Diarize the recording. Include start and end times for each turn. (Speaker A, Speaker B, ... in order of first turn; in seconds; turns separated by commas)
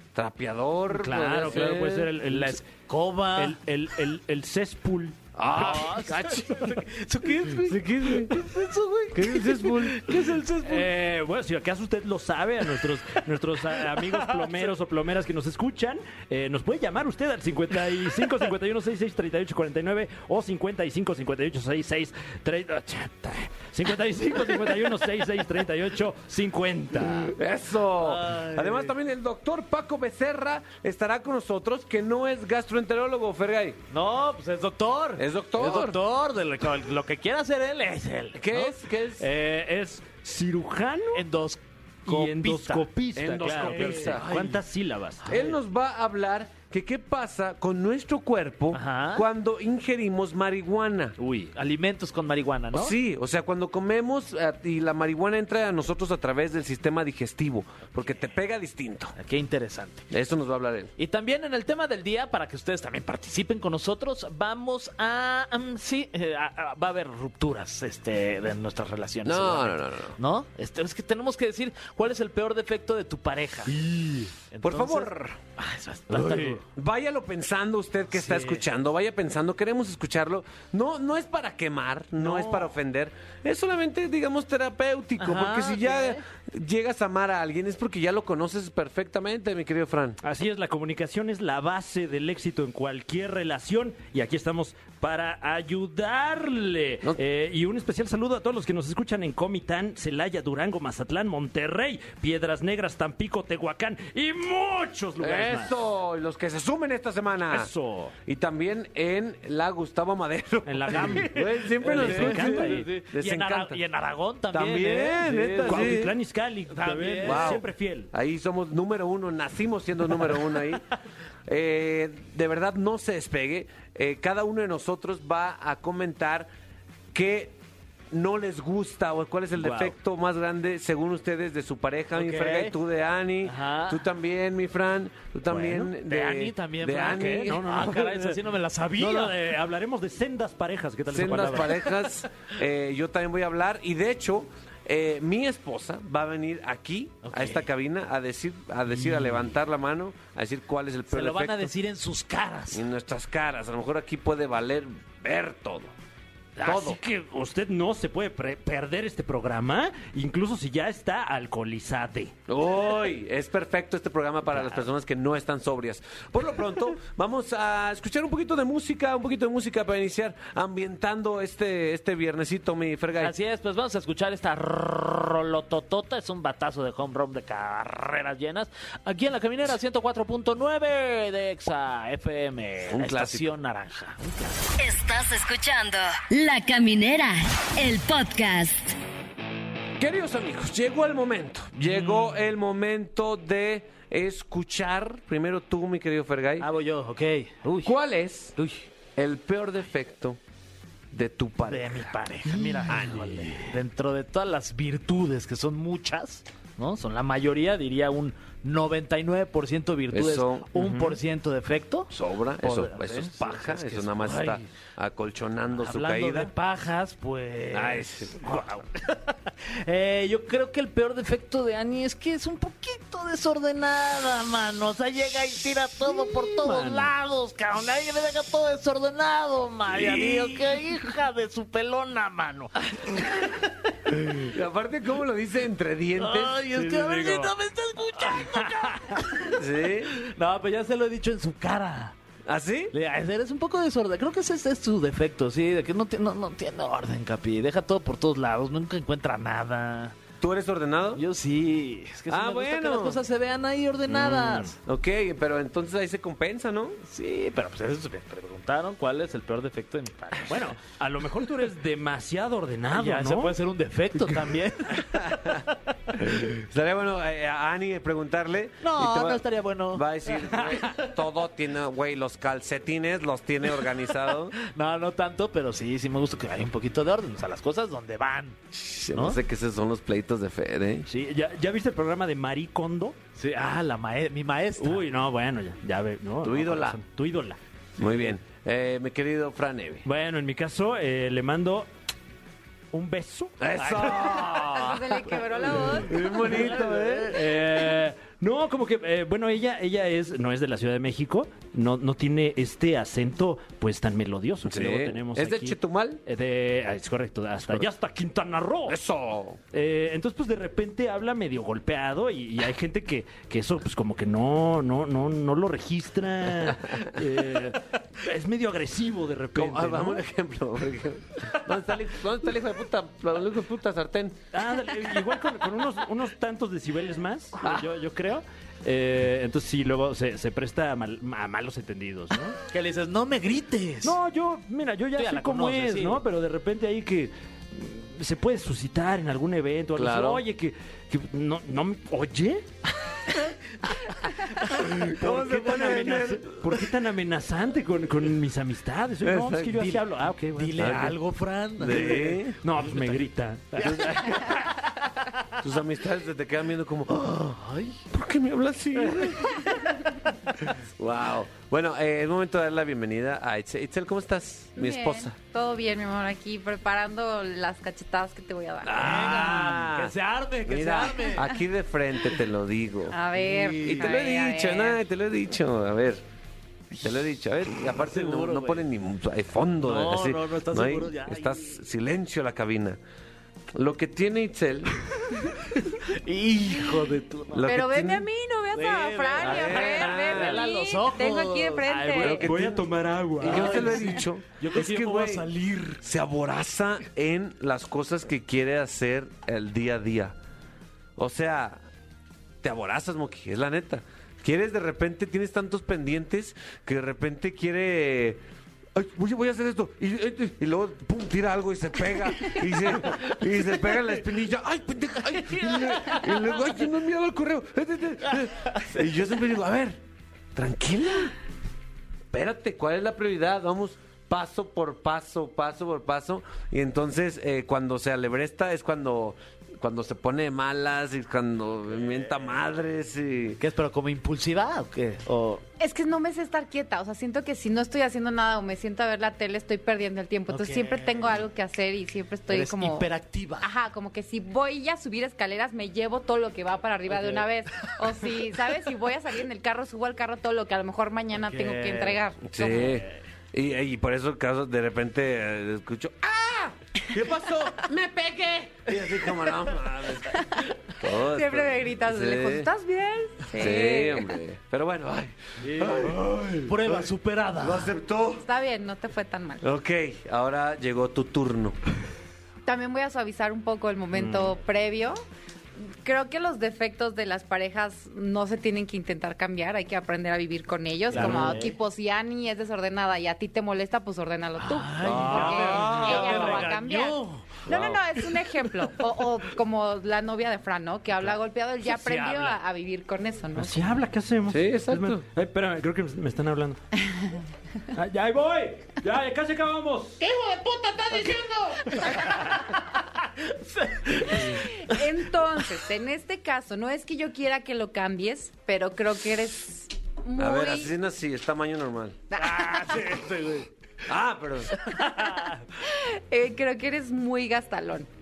Speaker A: 0.1-2.1, Speaker B: 0.9-2.7, Speaker C: 1.4-1.7, Speaker C: 2.3-3.6, Speaker B: 3.3-5.8, Speaker A: 5.3-6.7, Speaker C: 5.5-10.9, Speaker A: 7.6-8.4, Speaker A: 9.1-10.1, Speaker B: 10.6-27.3, Speaker C: 13.9-14.7, Speaker A: 27.3-33.8, Speaker C: 28.0-28.9, Speaker C: 33.9-38.7, Speaker A: 35.1-36.0, Speaker A: 38.3-39.2, Speaker B: 39.2-41.2, Speaker C: 41.1-42.9, Speaker B: 42.0-45.4, Speaker A: 43.1-44.5, Speaker C: 43.4-44.6, Speaker C: 45.2-45.5, Speaker A: 45.3-51.2, Speaker C: 48.7-49.2, Speaker B: 51.2-51.5, Speaker C: 51.5-53.0, Speaker A: 52.7-59.2, Speaker C: 59.2-60.0, Speaker A: 60.1-60.9, Speaker C: 61.0-73.8, Speaker A: 69.2-70.2, Speaker B: 73.7-74.3, Speaker C: 74.5-76.6, Speaker A: 74.6-75.4, Speaker B: 76.1-76.6, Speaker A: 76.7-90.2, Speaker C: 78.1-78.6, Speaker B: 82.3-82.6, Speaker C: 85.2-86.2, Speaker B: 90.2-105.7, Speaker A: 105.2-107.7, Speaker B: 107.5-108.1, Speaker A: 108.2-113.8, Speaker B: 110.7-112.9, Speaker C: 110.9-116.0, Speaker A: 114.5-116.1, Speaker B: 115.6-118.1, Speaker C: 116.7-117.6, Speaker A: 117.2-120.8, Speaker A: 121.5-126.5, Speaker A: 127.1-127.5, Speaker A: 128.1-138.1, Speaker B: 129.6-129.9, Speaker C: 132.1-132.7, Speaker C: 133.4-134.0, Speaker B: 135.5-135.9, Speaker C: 136.1-139.4, Speaker B: 137.0-138.4, Speaker B: 139.0-141.9, Speaker A: 141.1-151.7, Speaker C: 147.2-147.7, Speaker C: 148.9-149.4, Speaker C: 151.1-152.8, Speaker A: 152.7-155.9, Speaker C: 156.6-156.8, Speaker A: 156.6-157.0, Speaker B: 156.7-162.3, Speaker A: 162.5-173.3, Speaker C: 173.2-184.7, Speaker A: 182.9-183.4, Speaker D: 184.8-188.9, Speaker A: 190.0-196.7, Speaker C: 196.6-197.9, Speaker A: 197.8-198.6, Speaker C: 198.6-198.8, Speaker A: 199.2-200.4, Speaker A: 201.1-202.2, Speaker C: 201.7-214.7, Speaker B: 202.5-203.1, Speaker A: 202.9-203.4, Speaker A: 210.1-210.7, Speaker B: 210.8-211.2, Speaker A: 212.1-216.5, Speaker C: 215.7-233.7, Speaker A: 217.7-218.4, Speaker B: 226.0-227.1, Speaker A: 229.9-230.7, Speaker A: 234.4-237.5, Speaker C: 236.2-242.2, Speaker A: 238.4-238.7, Speaker A: 239.4-240.1, Speaker A: 242.4-242.9, Speaker C: 242.9-250.2, Speaker A: 250.4-251.2, Speaker C: 251.1-254.8, Speaker A: 252.3-253.2, Speaker B: 254.1-254.7, Speaker A: 254.8-257.0, Speaker C: 257.1-260.7, Speaker B: 260.5-263.6, Speaker C: 262.9-265.5, Speaker A: 265.1-265.6, Speaker A: 266.2-274.6, Speaker C: 268.8-271.1, Speaker C: 274.7-278.6, Speaker A: 278.7-281.1, Speaker C: 279.1-279.4, Speaker B: 281.1-283.1, Speaker C: 283.4-285.1, Speaker B: 284.8-287.6, Speaker A: 286.4-287.0, Speaker A: 288.0-290.1, Speaker B: 290.0-291.9, Speaker B: 292.9-294.1, Speaker A: 293.6-295.4, Speaker C: 293.8-294.2, Speaker E: 294.4-296.2, Speaker A: 296.0-297.4, Speaker C: 296.3-297.4, Speaker B: 297.3-309.0, Speaker A: 304.7-306.2, Speaker A: 308.9-309.6, Speaker B: 309.7-320.2, Speaker A: 319.5-324.4, Speaker B: 324.5-332.6, Speaker A: 327.6-327.9, Speaker C: 332.7-334.1, Speaker B: 334.0-342.6, Speaker C: 335.2-336.2, Speaker A: 339.9-340.4, Speaker A: 344.7-346.7, Speaker B: 345.0-351.1, Speaker A: 349.2-350.0, Speaker C: 350.5-353.2, Speaker A: 350.8-351.2, Speaker A: 351.8-352.6, Speaker B: 351.9-354.5, Speaker C: 353.7-354.7, Speaker A: 353.8-354.5, Speaker A: 355.6-357.5, Speaker C: 357.3-358.0, Speaker A: 358.1-359.8, Speaker A: 360.8-365.3, Speaker E: 364.8-369.5, Speaker A: 368.8-370.1, Speaker C: 368.9-371.5, Speaker A: 370.6-373.1, Speaker E: 373.1-375.0, Speaker C: 373.3-374.1, Speaker A: 373.8-376.2, Speaker A: 377.0-383.0, Speaker C: 377.8-378.8, Speaker C: 379.8-381.8, Speaker A: 383.7-385.0, Speaker C: 386.1-387.7, Speaker A: 387.5-388.3, Speaker E: 387.6-392.5, Speaker C: 388.7-391.9, Speaker A: 389.4-390.6, Speaker B: 391.9-394.2, Speaker A: 392.1-395.5, Speaker C: 393.4-396.0, Speaker A: 396.0-400.4, Speaker A: 401.2-401.8, Speaker A: 402.6-408.4, Speaker A: 408.9-420.0, Speaker C: 415.6-416.3, Speaker A: 420.5-421.3, Speaker A: 422.3-433.6, Speaker C: 433.6-435.6, Speaker E: 435.8-443.1, Speaker C: 440.5-441.4, Speaker C: 442.5-443.7, Speaker E: 443.6-452.9, Speaker C: 447.1-447.4, Speaker C: 451.4-453.0, Speaker A: 452.5-462.7, Speaker E: 461.3-464.3, Speaker A: 463.5-468.4, Speaker C: 465.6-467.9, Speaker E: 468.4-469.6, Speaker A: 469.6-471.8, Speaker E: 472.6-475.2, Speaker B: 474.2-474.4, Speaker E: 476.0-493.9, Speaker C: 481.1-481.8, Speaker C: 484.6-487.6, Speaker B: 485.0-486.2, Speaker A: 485.1-486.7, Speaker A: 487.7-488.0, Speaker C: 491.8-492.6, Speaker B: 493.6-497.0, Speaker A: 494.5-495.2, Speaker B: 497.9-500.2, Speaker A: 500.2-502.0, Speaker C: 501.9-502.4, Speaker C: 503.4-505.0, Speaker E: 504.5-510.9, Speaker A: 510.4-512.2, Speaker E: 512.3-513.0, Speaker C: 512.4-513.7, Speaker A: 514.0-514.8, Speaker C: 514.9-515.6, Speaker E: 515.8-518.1